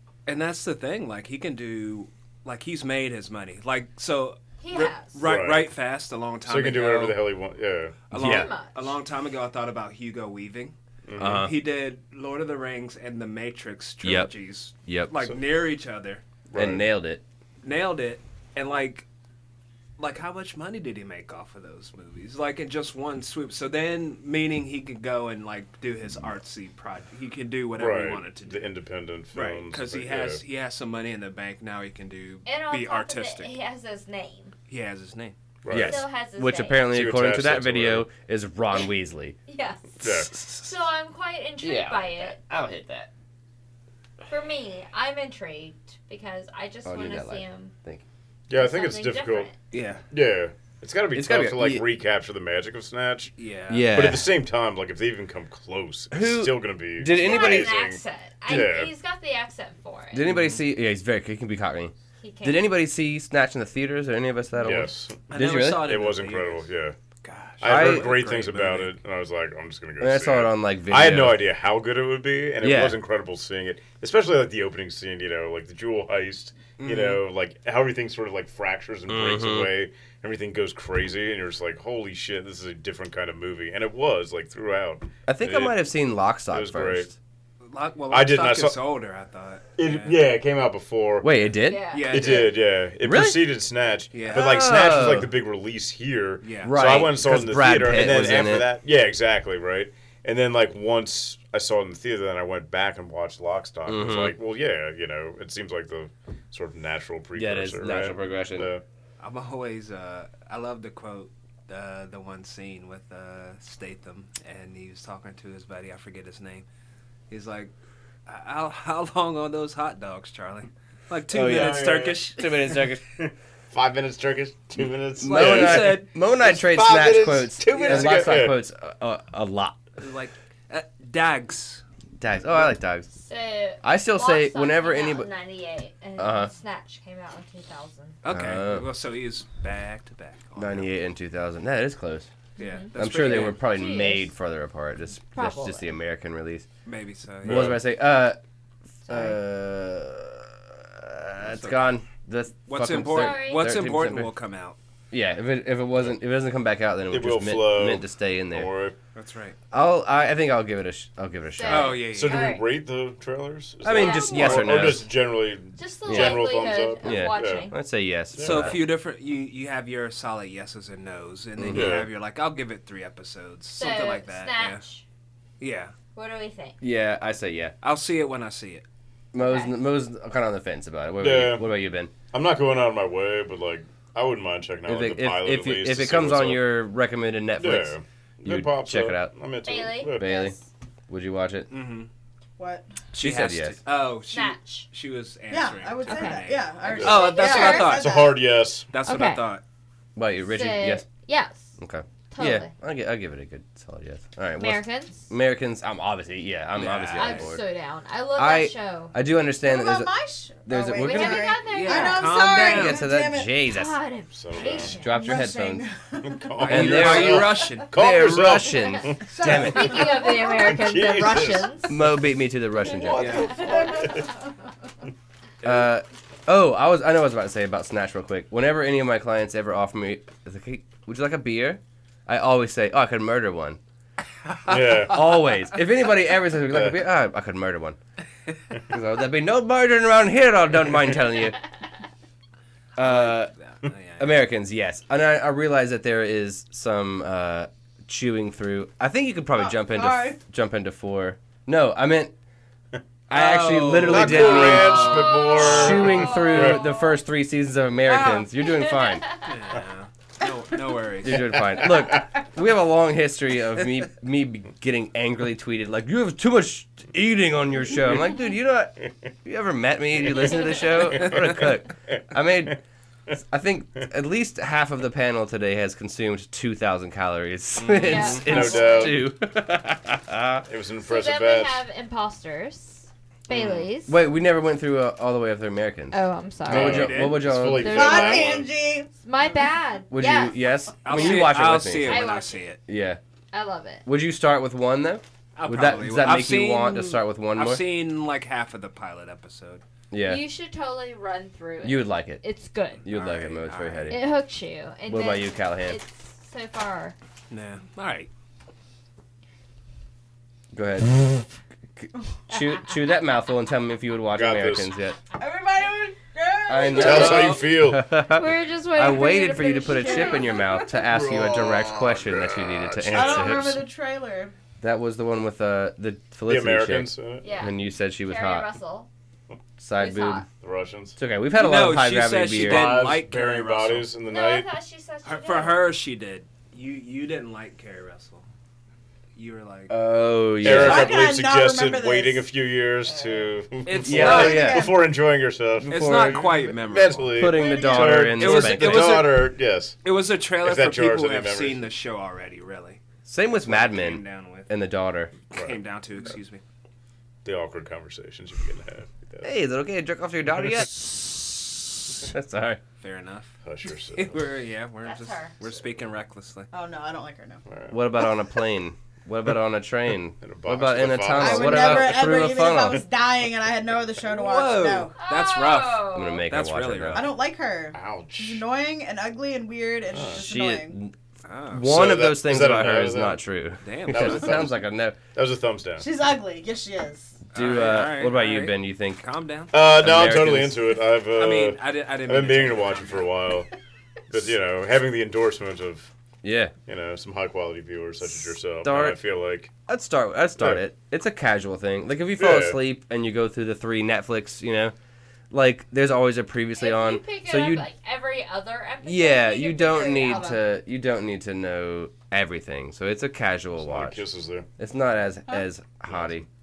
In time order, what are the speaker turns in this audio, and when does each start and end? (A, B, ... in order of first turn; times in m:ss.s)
0:00.2-0:07.3 A
0:04.6-0:05.2 B
0:05.2-0:05.7 C
0:06.4-0:08.1 C
0:08.1-0:16.2 A
0:08.1-0:08.5 D
0:08.2-0:08.9 B
0:11.0-0:11.5 C
0:11.2-0:11.5 D
0:14.0-0:15.3 D
0:16.5-0:16.9 C
0:16.5-0:17.2 D
0:17.6-0:19.0 A
0:20.0-0:28.6 A
0:27.8-0:30.4 C
0:29.3-0:33.5 A
0:32.4-0:34.5 B
0:34.7-0:35.4 A
0:35.6-0:36.1 C
0:35.7-0:36.9 B
0:35.7-0:39.4 D
0:36.9-0:38.1 C
0:39.5-0:42.4 B
0:40.0-0:40.3 C
0:41.6-0:43.1 D
0:44.3-0:47.7 B
0:46.8-0:48.0 D
0:48.5-0:49.5 C
0:48.5-0:49.6 B
0:49.7-0:50.0 A
0:50.1-0:53.3 C
0:51.1-0:51.9 D
0:53.4-0:54.1 A
0:53.7-0:54.3 D
0:53.9-0:58.9 C
0:56.1-0:57.7 D
0:57.1-1:00.3 B
1:00.1-1:05.9 D
1:00.2-1:00.6 A
1:02.2-1:02.7 B
1:04.6-1:07.0 C
1:05.3-1:06.7 A
1:07.2-1:09.0 A
1:07.6-1:25.8 C
1:07.6-1:08.3 D
1:10.0-1:11.4 D
1:12.6-1:13.0 D
1:16.8-1:17.2 A
1:19.1-1:19.7 D
1:25.2-1:27.2 D
1:26.5-1:27.1 C
1:27.6-1:30.2 A
1:28.1-1:28.8 C
1:29.8-1:31.5 C
1:31.2-1:31.8 D
1:31.6-1:32.4 B
1:31.9-1:32.6 A
1:32.1-1:48.8 C
1:33.0-1:33.4 D
1:34.1-1:34.7 A
1:34.3-1:35.3 D
1:36.4-1:37.0 A
1:36.6-1:38.7 D
1:43.8-1:44.3 D
1:47.3-1:48.7 D
1:49.2-1:56.6 A
1:57.3-1:57.7 A
1:58.2-2:02.8 A
2:01.3-2:03.0 D
2:01.4-2:02.2 C
2:03.2-2:08.6 C
2:05.2-2:06.1 A
2:05.2-2:09.8 D
2:07.7-2:08.4 A
2:10.0-2:11.8 A
2:12.2-2:13.1 D
2:13.2-2:18.2 B
2:13.8-2:15.3 D
2:16.2-2:16.5 D
2:18.2-2:20.9 A
2:18.2-2:18.9 D
2:20.6-2:22.3 D
2:22.6-2:23.6 A
2:22.6-2:24.3 B
2:23.0-2:26.7 D
2:25.3-2:26.0 B
2:26.8-2:27.8 A
2:27.4-2:27.8 C
2:27.4-2:28.4 D
2:29.1-2:29.4 B
2:29.1-2:34.3 D
2:31.4-2:31.8 A
2:32.7-2:34.8 A
2:33.1-2:33.7 B
2:35.1-2:38.7 D
2:37.1-2:39.0 C
2:39.1-2:39.6 A
2:39.7-2:42.0 D
2:41.5-2:42.7 B
2:41.6-2:42.6 A
2:42.0-2:47.6 C
2:43.8-2:45.1 D
2:43.9-2:44.9 B
2:44.6-2:45.0 A
2:45.8-2:47.8 B
2:46.0-2:48.8 D
2:48.3-2:48.8 C
2:48.4-2:54.8 A
2:51.6-2:52.0 D
2:51.7-2:52.1 C
2:53.8-2:55.0 B
2:55.6-2:55.9 A
2:56.1-2:56.8 B
2:56.8-2:57.7 D
2:57.8-2:58.8 A
2:59.3-3:02.1 D
2:59.4-2:59.7 B
3:01.2-3:01.7 C
3:02.3-3:06.6 C
3:04.8-3:09.3 D
3:07.6-3:10.4 C
3:09.6-3:10.6 B
3:10.0-3:10.6 D
3:11.1-3:11.7 D
3:11.7-3:12.1 A
3:12.6-3:12.9 E
3:13.1-3:13.8 D
3:13.1-3:18.2 A
3:14.3-3:14.8 B
3:15.5-3:18.4 E
3:16.1-3:16.4 B
3:16.8-3:18.9 C
3:18.9-3:19.6 A
3:19.0-3:19.5 B
3:20.2-3:21.0 D
3:20.4-3:21.8 B
3:21.8-3:27.6 D
3:22.3-3:22.7 B
3:24.6-3:25.3 B
3:26.7-3:27.6 A
3:27.1-3:29.1 B
3:28.4-3:30.1 D
3:29.6-3:33.5 E
3:30.6-3:31.5 D
3:30.9-3:32.5 B
3:31.6-3:33.0 A
3:32.5-3:33.9 D
3:33.6-3:35.2 B
3:34.3-3:35.0 C
3:34.6-3:35.8 D
3:35.0-3:36.5 E
3:36.2-3:39.9 C
3:36.6-3:40.1 D
3:36.6-3:37.9 A
3:39.0-3:42.0 B
3:39.3-3:40.7 E
3:40.4-3:41.8 C
3:41.9-3:43.6 D
3:43.0-3:44.3 C
3:43.1-3:43.6 A
3:43.5-3:44.3 E
3:45.6-3:53.8 D
3:54.6-3:55.4 C
3:54.7-3:58.0 D
3:56.7-3:57.0 C
3:58.9-4:01.6 D
4:03.0-4:03.5 D
4:03.0-4:04.4 A
4:04.2-4:12.3 D
4:09.5-4:10.4 E
4:13.3-4:19.2 D
4:13.3-4:15.6 A
4:14.0-4:16.8 C
4:14.9-4:17.1 B
4:18.1-4:18.4 E
4:18.6-4:19.5 B
4:19.4-4:21.7 A
4:21.2-4:32.8 D
4:30.3-4:31.7 C
4:31.2-4:31.5 A
4:33.5-4:40.6 D
4:37.8-4:38.5 A
4:37.9-4:39.2 B
4:38.4-4:39.2 C
4:40.7-4:41.8 C
4:41.0-4:44.2 B
4:43.5-4:43.9 A
4:44.0-4:48.3 D
4:46.1-4:47.1 B
4:46.6-4:48.7 C
4:46.7-4:47.4 A
4:47.7-4:48.6 B
4:47.8-4:49.1 E
4:49.2-4:50.6 B
4:50.1-4:52.3 D
4:51.0-4:52.8 A
4:51.1-4:52.7 B
4:52.9-4:53.2 D
4:53.5-4:54.0 B
4:54.0-4:57.8 D
4:55.6-4:59.8 A
5:00.1-5:00.4 D
5:00.2-5:03.0 B
5:01.8-5:02.4 D
5:03.0-5:04.2 A
5:03.0-5:04.3 D
5:04.1-5:07.1 B
5:05.1-5:06.0 D
5:07.5-5:08.3 A
5:10.7-5:15.2 D
5:14.3-5:14.9 C
5:15.4-5:17.4 E
5:16.7-5:23.8 D
5:16.9-5:18.1 C
5:17.0-5:17.7 A
5:18.1-5:20.7 B
5:19.8-5:21.0 E
5:21.0-5:23.8 C
5:23.1-5:24.5 E
5:24.8-5:28.7 D
5:26.4-5:27.5 C
5:27.4-5:29.1 B
5:29.8-5:30.4 D
5:29.9-5:30.5 B
5:30.6-5:31.2 C
5:31.2-5:33.1 D
5:31.5-5:34.1 A
5:32.5-5:34.7 C
5:34.3-5:35.9 B
5:35.2-5:38.4 A
5:39.3-5:40.0 A
5:39.9-5:41.2 D
5:40.6-5:50.0 C
5:40.6-5:42.5 E
5:43.0-5:43.5 E
5:43.8-5:44.6 A
5:44.0-5:44.9 D
5:44.1-5:45.1 E
5:45.8-5:46.5 D
5:45.9-5:47.4 A
5:47.3-5:49.3 D
5:47.5-5:48.2 E
5:48.2-5:54.7 A
5:50.6-5:51.9 C
5:53.2-5:55.3 D
5:55.5-5:56.6 A
5:55.5-5:55.8 C
5:57.4-5:59.5 C
5:59.4-6:02.8 D
6:03.0-6:03.5 A
6:03.6-6:04.4 C
6:04.1-6:06.7 A
6:05.0-6:05.6 B
6:06.7-6:07.6 E
6:07.7-6:08.0 C
6:07.9-6:13.0 D
6:10.4-6:12.3 C
6:11.3-6:15.1 E
6:14.3-6:17.3 A
6:15.2-6:16.4 B
6:16.1-6:17.3 D
6:17.1-6:21.0 E
6:17.9-6:18.6 C
6:20.1-6:20.4 C
6:20.2-6:21.1 D
6:21.4-6:21.9 A
6:21.7-6:25.2 D
6:21.8-6:23.4 C
6:23.8-6:24.6 A
6:24.1-6:26.1 C
6:26.0-6:27.4 E
6:27.5-6:29.2 D
6:27.5-6:29.8 A
6:29.7-6:33.7 C
6:29.9-6:30.9 D
6:31.3-6:33.3 A
6:34.3-6:36.1 C
6:36.4-6:36.7 D
6:36.8-6:39.7 C
6:38.2-6:39.2 D
6:39.8-6:44.9 D
6:42.4-6:42.8 C
6:45.5-6:47.8 D
6:46.8-6:50.6 B
6:49.0-6:54.2 D
6:50.2-6:50.6 E
6:53.8-6:54.7 C
6:54.8-6:56.5 D
6:56.1-6:56.4 C